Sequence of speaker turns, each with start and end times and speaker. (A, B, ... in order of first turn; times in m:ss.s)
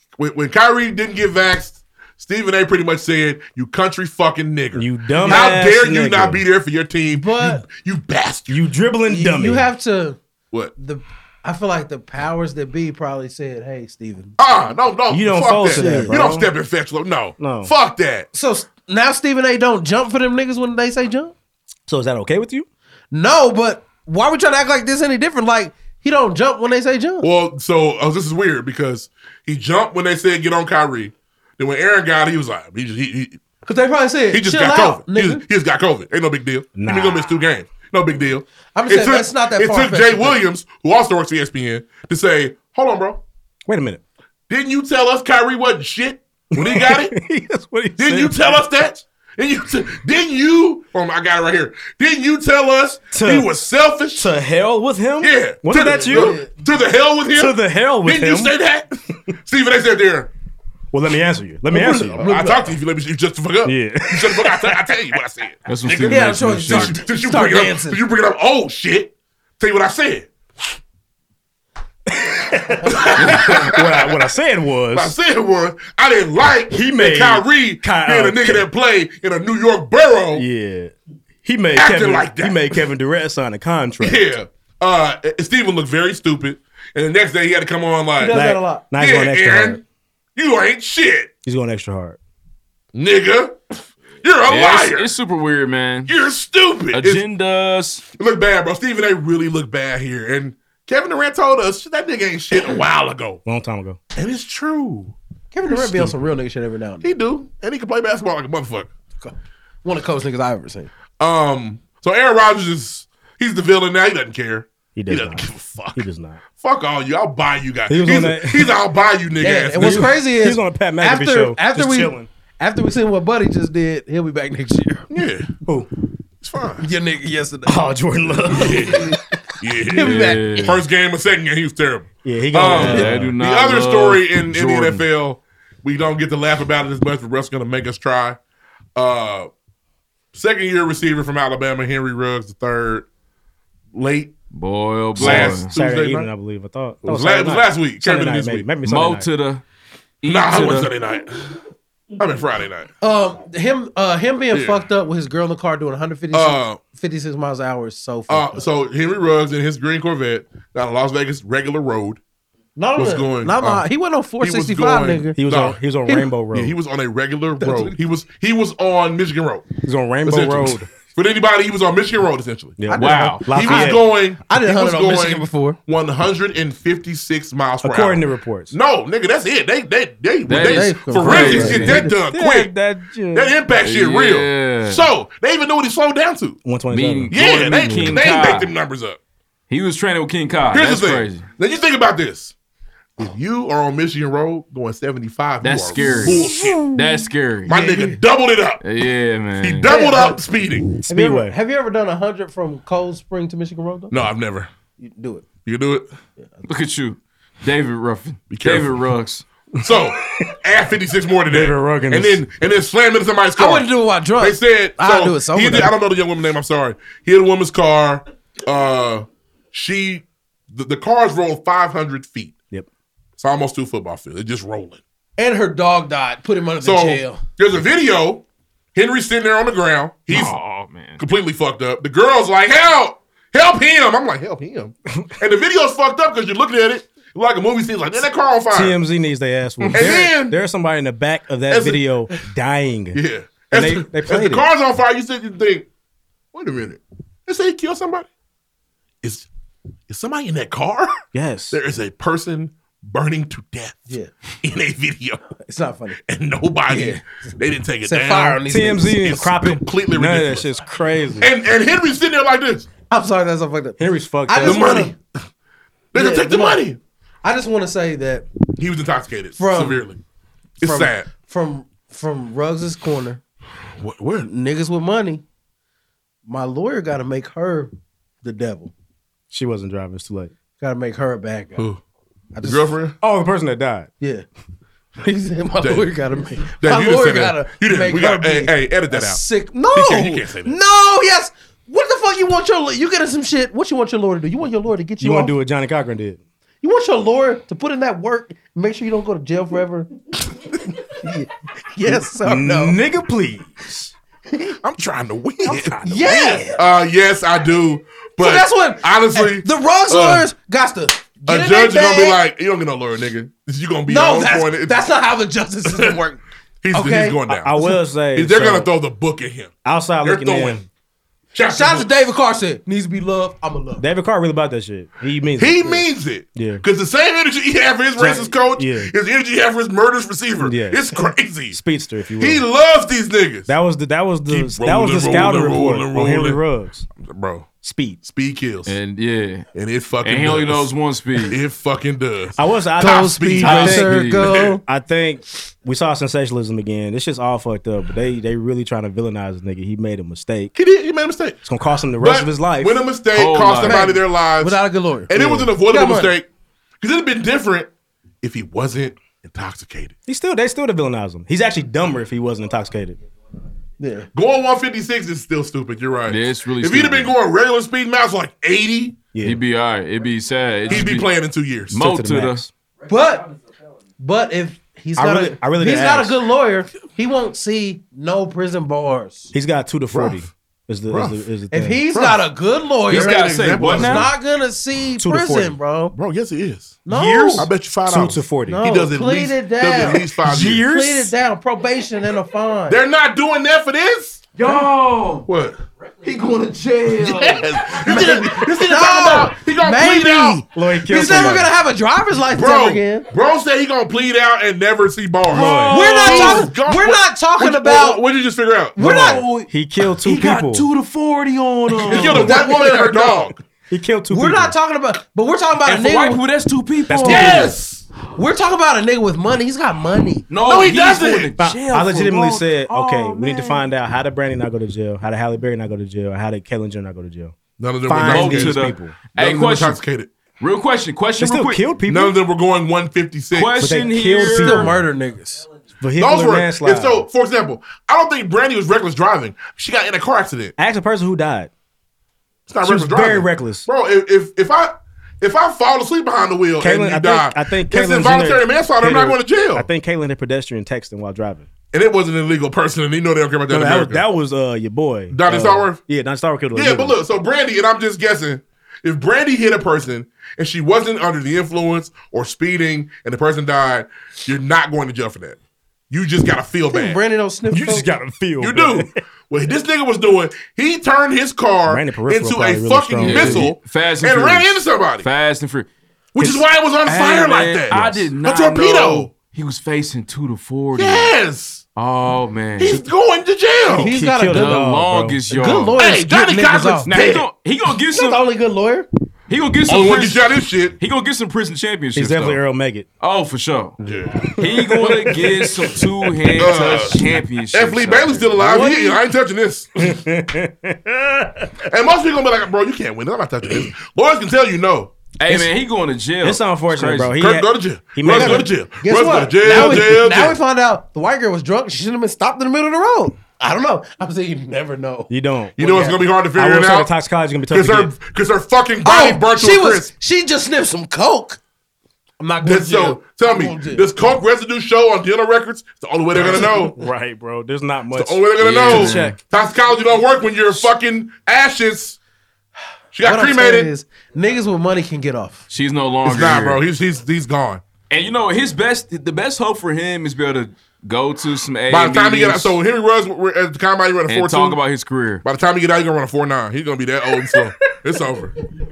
0:00.2-0:08.6 A
0:04.7-0:06.4 B
0:05.2-0:05.6 C
0:07.1-0:07.6 C
0:08.5-0:09.7 B
0:09.1-0:10.2 C
0:10.8-0:14.3 C
0:14.4-0:18.3 A
0:15.1-0:16.5 B
0:15.6-0:16.2 C
0:17.4-0:17.7 B
0:18.3-0:21.3 C
0:21.9-0:22.7 B
0:23.1-0:27.3 C
0:27.2-0:33.4 A
0:33.6-0:35.4 C
0:34.3-0:43.2 A
0:36.7-0:37.3 B
0:38.7-0:40.4 C
0:43.6-0:44.0 B
0:44.5-0:47.1 A
0:46.5-0:48.6 B
0:48.0-0:54.3 A
0:53.1-0:53.5 B
0:54.2-0:56.4 B
0:55.2-1:00.3 A
0:55.7-0:56.5 C
0:57.3-0:58.5 B
1:00.9-1:02.3 B
1:01.7-1:02.7 C
1:02.2-1:10.3 A
1:03.6-1:04.9 B
1:05.7-1:07.0 D
1:06.0-1:08.0 C
1:12.1-1:15.1 B
1:12.9-1:14.1 A
1:14.9-1:20.4 A
1:16.7-1:18.7 B
1:20.3-1:24.2 B
1:21.7-1:22.8 A
1:24.0-1:28.4 A
1:28.2-1:28.8 C
1:28.3-1:29.8 B
1:29.0-1:29.8 A
1:30.4-1:31.3 A
1:31.4-1:32.2 B
1:32.9-1:33.6 A
1:34.2-1:35.1 A
1:34.5-1:36.1 D
1:36.1-1:37.2 A
1:36.9-1:38.0 D
1:38.2-1:43.4 A
1:43.4-1:44.0 B
1:44.2-1:45.1 A
1:45.5-1:47.1 C
1:45.7-1:46.1 A
1:47.0-1:48.9 A
1:49.2-1:50.9 C
1:51.2-1:56.0 A
1:54.9-1:56.4 B
1:56.6-2:00.2 A
1:57.9-1:58.7 B
1:59.4-2:05.1 C
1:59.8-2:02.3 B
2:05.1-2:05.5 A
2:06.4-2:06.8 A
2:06.8-2:07.8 C
2:07.6-2:09.2 B
2:08.5-2:18.4 A
2:09.9-2:10.8 C
2:09.9-2:10.8 D
2:12.2-2:13.3 B
2:12.7-2:15.0 D
2:19.0-2:19.5 A
2:20.3-2:23.1 A
2:23.9-2:24.3 A
2:24.5-2:25.7 D
2:25.2-2:26.3 A
2:25.2-2:29.3 B
2:27.0-2:28.7 A
2:28.8-2:29.6 D
2:30.2-2:30.9 D
2:30.2-2:31.6 A
2:32.2-2:32.9 A
2:33.0-2:38.6 C
2:34.5-2:34.8 A
2:36.3-2:36.8 A
2:38.3-2:42.2 A
2:42.8-2:45.4 C
2:43.0-2:43.8 A
2:44.4-2:45.8 A
2:45.3-2:46.7 B
2:46.5-2:49.6 A
2:47.6-2:48.0 C
2:49.8-2:50.9 B
2:50.2-3:02.7 A
2:52.8-2:54.0 B
2:52.9-2:55.8 C
2:52.9-2:53.4 D
2:57.8-2:58.7 B
3:00.5-3:02.0 D
3:00.6-3:02.1 C
3:01.5-3:03.5 B
3:03.3-3:06.6 A
3:03.8-3:05.1 D
3:06.6-3:08.2 B
3:06.9-3:08.7 D
3:07.3-3:09.2 A
3:09.7-3:11.4 D
3:10.7-3:12.5 A
3:13.2-3:16.8 A
3:15.6-3:17.7 D
3:17.6-3:18.8 A
3:17.7-3:18.2 C
3:18.8-3:19.9 D
3:19.6-3:20.9 A
3:19.9-3:20.4 C
3:21.0-3:21.6 B
3:21.1-3:24.1 C
3:24.1-3:24.7 A
3:25.0-3:25.4 C
3:25.6-3:26.1 A
3:26.4-3:26.6 C
3:26.6-3:29.4 D
3:28.5-3:29.0 A
3:29.8-3:42.5 A
3:29.8-3:30.5 B
3:31.5-3:32.4 B
3:33.6-3:35.9 C
3:43.4-3:45.0 A
3:45.4-3:47.4 C
3:46.8-3:50.5 A
3:50.3-3:51.2 D
3:51.2-3:59.0 A
3:58.7-4:03.2 B
3:59.9-4:00.6 A
4:01.7-4:02.0 A
4:03.1-4:05.9 A
4:03.7-4:04.7 B
4:06.5-4:08.3 A
4:10.1-4:11.1 A
4:11.3-4:11.8 B
4:11.7-4:14.1 A
4:14.6-4:15.4 A
4:15.6-4:16.2 C
4:16.2-4:20.7 A
4:16.9-4:17.4 C
4:18.0-4:19.2 C
4:18.6-4:21.5 B
4:21.4-4:22.9 A
4:23.1-4:25.1 C
4:24.0-4:25.0 B
4:24.6-4:25.2 A
4:26.1-4:27.0 A
4:26.1-4:26.8 C
4:27.4-4:28.5 C
4:28.8-4:30.2 A
4:29.6-4:30.0 C
4:30.8-4:31.3 A
4:30.8-4:33.4 C
4:34.0-4:34.5 A
4:34.4-4:35.4 C
4:36.4-4:38.9 C
4:39.5-4:40.5 B
4:40.8-4:41.8 C
4:42.5-4:42.9 C
4:42.6-4:43.2 A
4:43.2-4:44.1 B
4:44.2-4:44.4 C
4:45.2-4:55.5 C
4:45.8-4:46.1 A
4:46.8-4:50.7 A
4:55.2-4:56.4 B
4:56.8-5:00.1 C
5:01.1-5:03.0 C
5:02.4-5:04.1 B
5:04.8-5:10.5 A
5:05.7-5:06.6 B
5:06.0-5:06.8 C
5:08.4-5:12.4 C
5:11.4-5:15.0 A
5:14.1-5:16.4 C
5:15.9-5:16.2 A
5:16.8-5:17.8 A
5:16.9-5:17.8 C
5:17.5-5:18.9 B
5:18.3-5:19.7 A
5:19.8-5:20.8 B
5:20.2-5:20.8 A
5:21.5-5:22.2 A
5:21.7-5:24.0 C
5:24.0-5:26.8 B
5:25.6-5:31.8 A
5:28.2-5:29.1 B
5:30.6-5:31.2 B
5:31.7-5:32.6 B
5:32.4-5:33.7 A
5:33.7-5:37.1 B
5:34.5-5:36.6 A
5:37.2-5:37.7 A
5:37.8-5:38.2 B
5:38.2-5:38.9 A
5:38.8-5:39.7 D
5:39.7-5:40.9 A
5:40.2-5:41.6 D
5:41.4-5:44.7 A
5:42.6-5:44.2 B
5:43.0-5:44.8 C
5:43.6-5:44.5 D
5:44.8-5:50.7 B
5:50.7-5:51.6 A
5:51.6-5:53.0 B
5:52.2-5:54.8 A
5:53.3-5:54.2 D
5:53.8-5:56.3 C
5:55.3-5:56.5 A
5:55.3-5:55.7 B
5:57.0-5:57.9 A
5:58.4-6:00.1 A
6:00.3-6:03.2 B
6:04.0-6:04.3 C
6:04.3-6:09.2 A
6:06.3-6:07.3 D
6:09.3-6:09.6 B
6:09.4-6:11.3 D
6:10.9-6:12.0 A
6:11.9-6:12.6 D
6:11.9-6:12.7 B
6:13.1-6:13.5 C
6:14.2-6:19.5 C
6:15.2-6:16.4 B
6:19.5-6:22.0 B
6:20.1-6:20.4 A
6:21.1-6:21.4 A
6:21.7-6:26.1 C
6:22.1-6:22.4 A
6:23.1-6:24.3 A
6:23.1-6:24.3 D
6:25.2-6:25.8 B
6:26.1-6:27.0 A
6:27.0-6:27.7 C
6:27.1-6:28.8 B
6:27.6-6:30.9 A
6:28.7-6:33.0 C
6:30.4-6:31.3 B
6:32.9-6:34.4 A
6:34.6-6:35.5 D
6:35.4-6:35.8 A
6:36.2-6:37.7 D
6:37.2-6:40.6 A
6:38.0-6:43.3 C
6:40.7-6:41.7 B
6:41.2-6:41.5 A
6:42.5-6:49.0 A
6:45.5-6:46.6 B
6:45.5-6:46.6 D
6:45.8-6:48.2 C
6:49.0-6:49.5 C
6:49.0-6:49.7 D
6:49.0-6:50.8 B
6:50.2-6:52.5 D
6:52.1-6:53.6 A
6:52.1-6:53.4 C
6:53.9-6:54.7 B
6:54.3-6:56.4 C
6:55.8-6:57.7 D
6:57.1-6:57.7 B
6:57.2-6:58.0 A
6:58.4-7:00.4 C
7:00.5-7:03.9 D
7:00.6-7:01.5 A
7:01.6-7:07.5 B
7:07.8-7:08.8 A
7:08.1-7:09.2 B
7:08.2-7:10.0 D
7:09.3-7:10.3 A
7:10.6-7:11.8 D
7:11.4-7:12.4 B
7:12.1-7:13.8 A
7:13.5-7:14.9 D
7:13.8-7:15.0 B
7:14.4-7:15.6 C
7:16.0-7:17.3 B
7:16.2-7:20.7 A
7:20.8-7:21.7 B
7:22.7-7:29.9 A
7:22.8-7:23.9 B
7:26.8-7:31.7 B
7:31.9-7:34.2 A
7:33.7-7:37.2 B
7:35.3-7:36.0 A
7:36.7-7:45.6 A
7:46.1-7:47.2 A
7:46.9-7:48.1 C
7:47.7-7:49.1 B
7:48.6-7:55.2 A
7:51.9-7:53.7 B
7:53.2-7:55.9 D
7:56.3-7:59.3 A
7:56.4-7:56.6 B
7:57.0-8:01.3 D
8:01.0-8:01.8 A
8:02.0-8:03.0 D
8:02.8-8:04.1 A
8:03.9-8:04.8 C
8:04.0-8:05.4 B
8:04.5-8:06.0 D
8:05.5-8:07.1 C
8:06.0-8:07.4 A
8:07.1-8:08.4 D
8:08.1-8:09.1 C
8:09.5-8:10.5 D
8:09.9-8:11.0 A
8:11.0-8:12.6 D
8:12.1-8:13.1 B
8:13.2-8:14.0 D
8:14.0-8:15.3 A
8:14.4-8:15.6 B
8:14.6-8:18.5 D
8:16.6-8:17.2 A
8:17.7-8:19.9 A
8:18.6-8:19.2 C
8:20.0-8:21.8 B
8:21.9-8:25.6 A
8:25.4-8:27.3 D
8:26.4-8:28.7 B
8:27.4-8:30.6 A
8:28.2-8:36.2 C
8:35.3-8:38.1 B
8:35.8-8:37.1 A
8:37.7-8:40.1 A
8:39.0-8:41.6 C
8:42.4-8:44.1 C
8:42.6-8:47.0 A
8:46.3-8:49.4 B
8:46.4-8:46.8 C
8:48.1-8:52.2 A
8:48.6-8:49.4 D
8:53.1-8:53.9 A
8:53.2-8:55.6 C
8:55.7-8:56.8 D
8:56.2-8:57.8 A
8:58.1-9:02.8 D
9:01.9-9:04.8 A
9:04.3-9:05.4 D
9:05.4-9:08.5 A